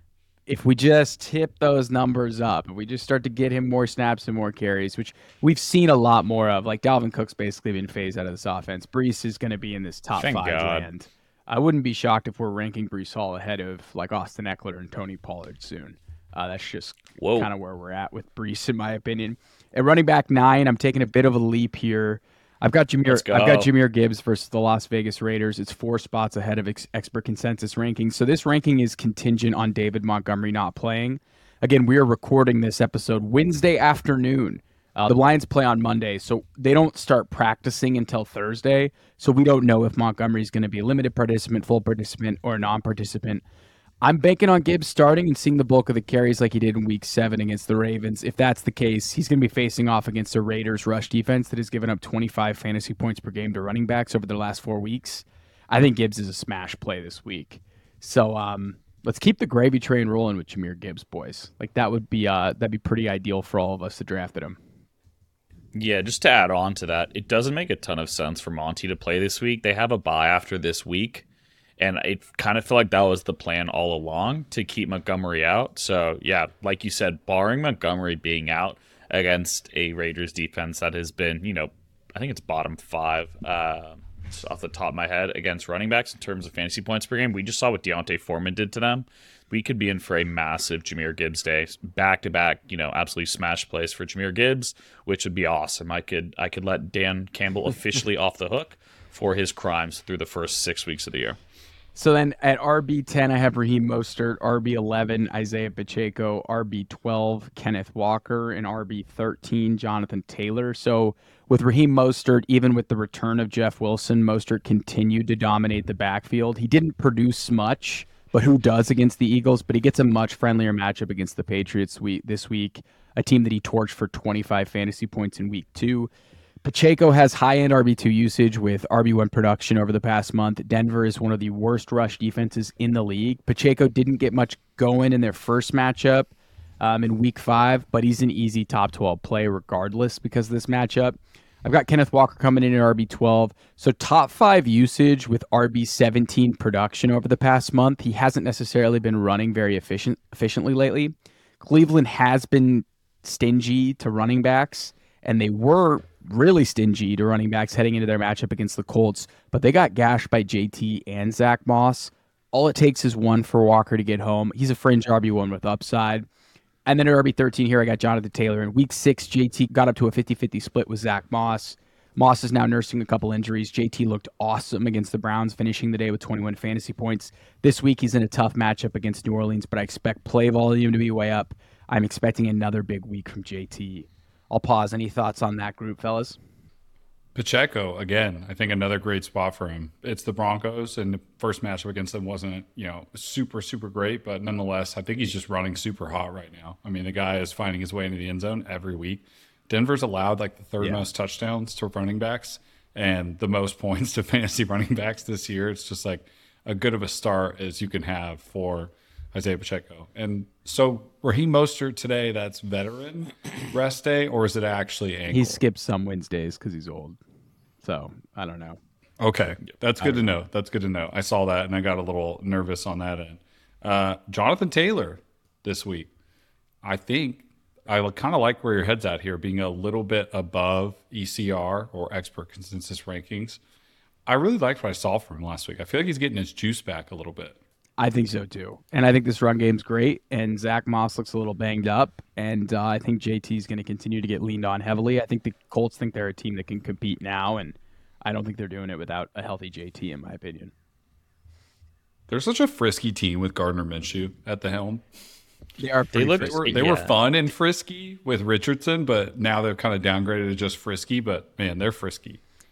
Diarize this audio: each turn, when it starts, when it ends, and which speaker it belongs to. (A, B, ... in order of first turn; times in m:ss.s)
0:00.5-0:43.4 A
0:10.2-0:10.9 B
0:17.2-0:17.5 B
0:23.1-0:23.7 B
0:44.0-1:04.6 A
1:05.7-1:11.2 B
1:11.8-1:41.4 B
1:41.9-2:06.1 A
2:06.6-2:46.2 A
2:46.9-3:06.4 A
3:07.3-3:35.6 C
3:35.3-3:37.2 A
3:37.8-3:38.8 A
3:39.2-3:46.1 C
3:46.8-3:53.6 C
3:54.2-3:57.5 C
3:58.0-4:10.7 A
4:12.3-4:15.0 C
4:15.8-4:16.8 A
4:16.1-4:17.1 B
4:16.4-4:22.4 C